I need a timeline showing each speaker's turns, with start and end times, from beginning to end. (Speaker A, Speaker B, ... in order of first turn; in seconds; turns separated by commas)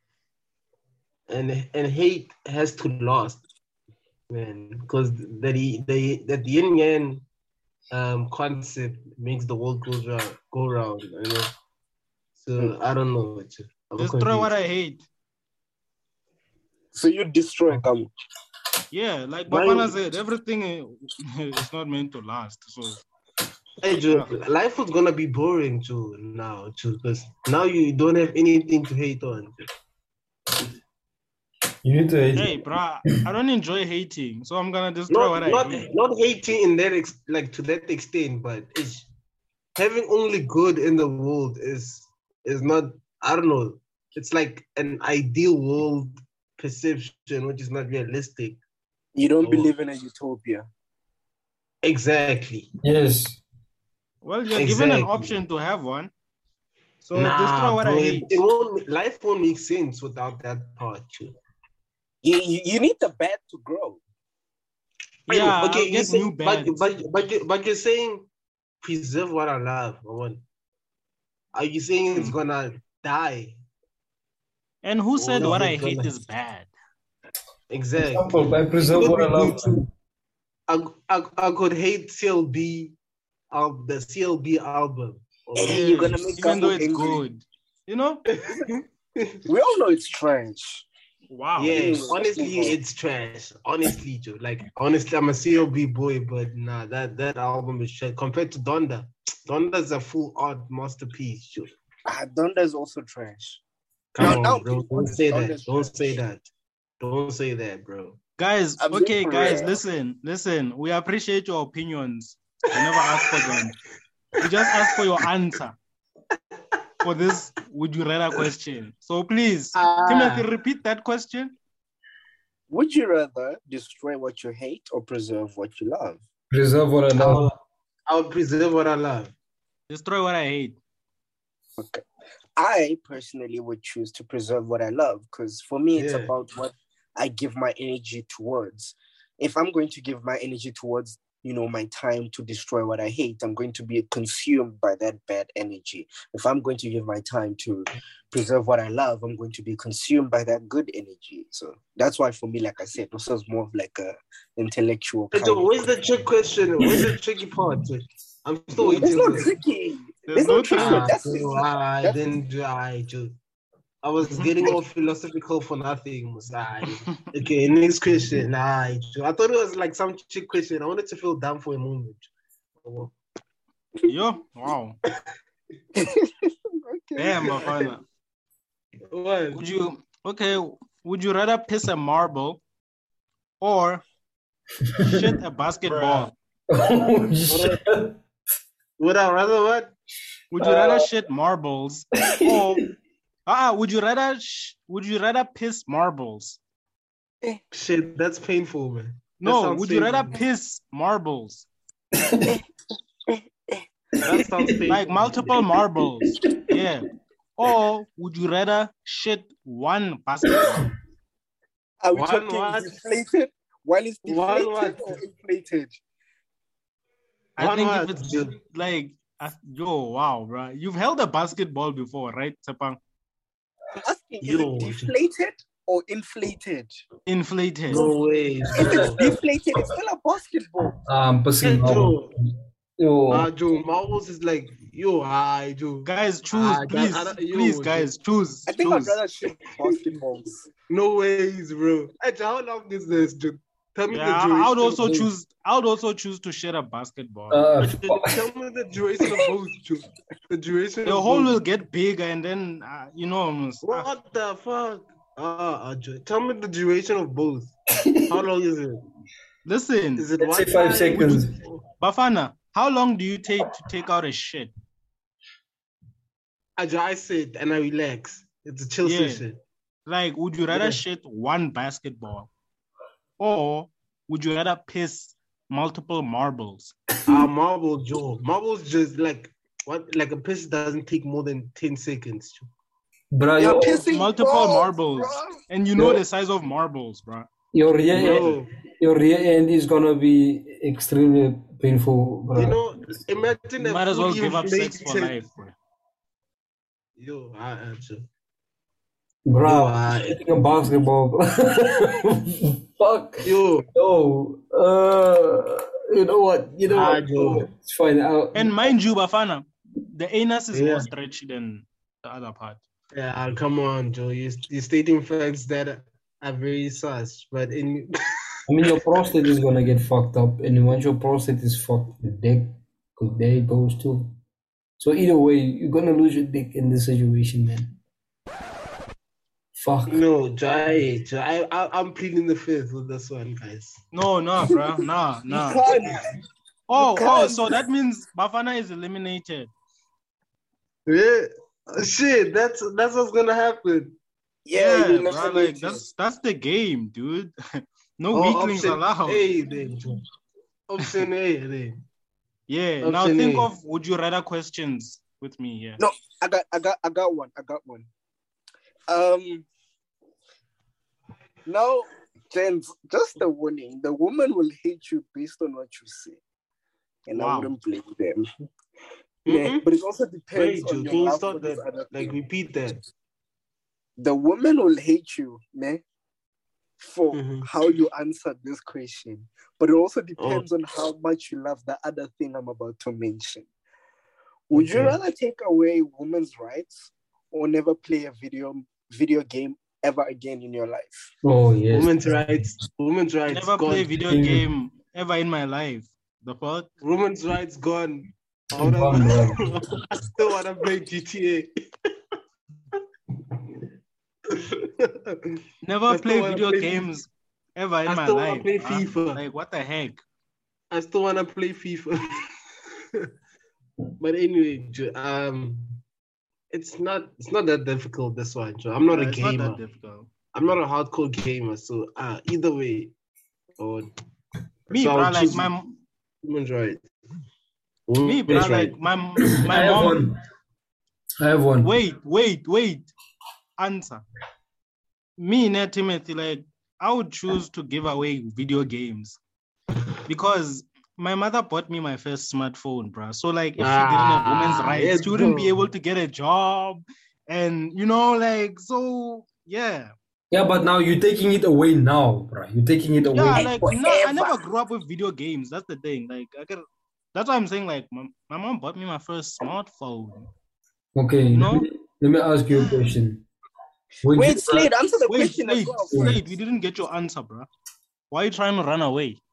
Speaker A: 1.3-3.4, Speaker A: 4.3-7.2, Speaker A: 7.9-11.5, Speaker A: 12.4-14.5, Speaker B: 14.0-15.0, Speaker C: 16.9-18.1, Speaker B: 18.9-23.0, Speaker A: 19.5-19.9, Speaker A: 23.8-29.5, Speaker D: 31.8-32.5, Speaker B: 32.4-35.9, Speaker A: 35.1-39.1, Speaker A: 39.8-48.6, Speaker C: 49.1-50.7, Speaker A: 49.4-49.7, Speaker A: 51.8-52.7, Speaker D: 52.8-53.4, Speaker B: 54.2-56.1, Speaker A: 54.5-55.4, Speaker B: 57.0-58.4, Speaker A: 57.1-61.3, Speaker C: 62.2-64.0, Speaker B: 65.3-66.8, Speaker A: 65.3-68.3, Speaker A: 68.8-70.4, Speaker A: 71.5-73.6, Speaker B: 74.8-76.7, Speaker A: 75.2-76.1, Speaker A: 77.7-79.8, Speaker D: 78.0-79.8, Speaker A: 80.7-83.0, Speaker A: 83.5-86.2, Speaker C: 85.5-87.2, Speaker B: 85.7-88.2, Speaker A: 88.3-89.4, Speaker C: 89.5-90.9, Speaker B: 91.3-92.1, Speaker A: 91.6-101.7, Speaker C: 91.7-92.8, Speaker C: 102.1-103.6, Speaker A: 104.1-106.4, Speaker C: 104.2-106.2, Speaker A: 107.0-108.2, Speaker B: 108.4-113.8, Speaker C: 108.8-109.7, Speaker B: 114.4-115.8, Speaker B: 117.0-121.5, Speaker A: 119.7-120.4, Speaker C: 122.7-126.2, Speaker D: 126.5-127.5, Speaker A: 127.2-127.5, Speaker A: 128.1-129.3, Speaker B: 129.9-130.8, Speaker C: 131.8-132.0, Speaker C: 132.6-155.8, Speaker A: 135.9-136.3, Speaker A: 155.3-159.5, Speaker C: 158.8-162.2, Speaker B: 160.3-161.1, Speaker A: 160.7-163.3, Speaker A: 164.0-172.3, Speaker A: 172.8-173.1, Speaker B: 174.1-175.0, Speaker C: 176.0-177.8, Speaker B: 177.2-178.0, Speaker A: 179.1-179.6, Speaker B: 179.5-182.6, Speaker B: 183.6-184.0, Speaker D: 185.0-185.3, Speaker B: 185.0-186.3, Speaker A: 185.9-186.3, Speaker D: 186.7-188.2, Speaker A: 187.5-187.8, Speaker A: 189.0-189.9, Speaker B: 190.5-192.9, Speaker D: 190.6-191.0, Speaker D: 192.3-192.8, Speaker B: 193.5-196.6, Speaker A: 197.7-200.3, Speaker B: 199.4-201.7, Speaker D: 202.2-202.6, Speaker C: 203.3-203.8, Speaker A: 204.2-205.6, Speaker B: 204.9-210.9, Speaker D: 206.2-206.8, Speaker C: 212.0-216.0, Speaker A: 212.1-213.0, Speaker A: 214.2-215.2, Speaker B: 217.6-223.0, Speaker A: 217.6-218.5, Speaker C: 223.9-226.9, Speaker A: 224.4-225.1, Speaker B: 227.2-228.1, Speaker A: 227.9-229.2, Speaker D: 228.7-229.3, Speaker C: 228.7-231.0, Speaker D: 231.1-232.3, Speaker A: 231.6-232.3, Speaker D: 233.0-233.5, Speaker A: 233.3-238.1, Speaker B: 236.0-239.2, Speaker C: 238.7-240.7, Speaker A: 240.9-245.3, Speaker B: 244.1-247.6, Speaker D: 247.5-248.3, Speaker A: 247.8-251.6, Speaker B: 251.0-254.1, Speaker A: 253.8-257.7, Speaker D: 258.0-258.4, Speaker A: 258.3-259.0, Speaker B: 259.6-260.3, Speaker A: 260.2-261.8, Speaker D: 260.4-261.5, Speaker B: 262.0-264.7, Speaker A: 266.8-269.6, Speaker B: 269.0-269.4, Speaker B: 270.1-272.5, Speaker A: 270.7-271.0, Speaker B: 273.4-276.9, Speaker A: 277.2-282.7, Speaker D: 283.3-284.1, Speaker C: 283.6-285.6, Speaker B: 284.1-287.5, Speaker D: 285.9-286.2, Speaker D: 287.7-292.8, Speaker A: 288.1-288.7, Speaker B: 288.2-288.5, Speaker A: 292.5-295.4, Speaker B: 293.8-295.7, Speaker A: 297.2-298.3, Speaker D: 299.4-308.9, Speaker A: 299.6-300.4, Speaker A: 303.4-303.9, Speaker A: 306.9-307.7, Speaker B: 308.5-312.8, Speaker A: 310.7-311.1, Speaker A: 313.1-318.1, Speaker D: 318.7-324.4, Speaker D: 325.0-327.9, Speaker D: 329.8-330.2, Speaker A: 330.1-334.0, Speaker B: 334.1-335.8, Speaker C: 335.5-336.3, Speaker B: 336.9-339.7, Speaker C: 337.0-337.8, Speaker A: 341.1-344.2, Speaker C: 344.6-346.1, Speaker B: 344.7-349.5, Speaker A: 348.3-350.2, Speaker A: 350.9-352.0, Speaker B: 352.7-356.0, Speaker A: 353.0-353.7, Speaker C: 356.0-358.1, Speaker C: 359.1-359.7, Speaker C: 361.6-366.4, Speaker C: 367.2-368.4, Speaker B: 367.3-367.7, Speaker A: 369.4-369.8, Speaker C: 369.5-372.3, Speaker A: 370.5-373.0, Speaker C: 374.2-376.0, Speaker C: 377.0-383.6, Speaker A: 377.3-377.7, Speaker A: 380.4-380.6, Speaker C: 384.7-391.3, Speaker A: 384.8-385.1, Speaker D: 391.4-392.4, Speaker A: 391.9-394.1, Speaker B: 393.5-396.9, Speaker D: 394.2-394.7, Speaker A: 397.0-401.7, Speaker D: 398.7-399.8, Speaker A: 404.5-405.6, Speaker B: 405.8-410.2, Speaker A: 406.1-407.1, Speaker A: 408.1-409.4, Speaker A: 410.9-412.4, Speaker A: 414.2-416.0, Speaker A: 416.7-419.8, Speaker B: 419.1-420.3, Speaker A: 420.5-423.1, Speaker A: 423.8-424.1, Speaker A: 424.9-425.7, Speaker B: 424.9-425.9, Speaker A: 426.4-427.0, Speaker A: 428.1-428.9, Speaker B: 428.2-430.2, Speaker D: 429.5-430.4, Speaker D: 431.4-431.9, Speaker B: 431.8-433.1, Speaker B: 433.8-434.2, Speaker B: 435.4-439.4, Speaker B: 440.3-450.1, Speaker A: 443.8-445.7, Speaker D: 450.5-453.8, Speaker B: 453.3-460.5, Speaker C: 453.5-454.6, Speaker D: 461.1-463.4, Speaker B: 461.5-461.9, Speaker B: 462.7-463.1, Speaker D: 464.2-464.9, Speaker C: 464.3-466.4, Speaker B: 465.3-467.7, Speaker D: 466.1-466.5, Speaker B: 468.3-469.4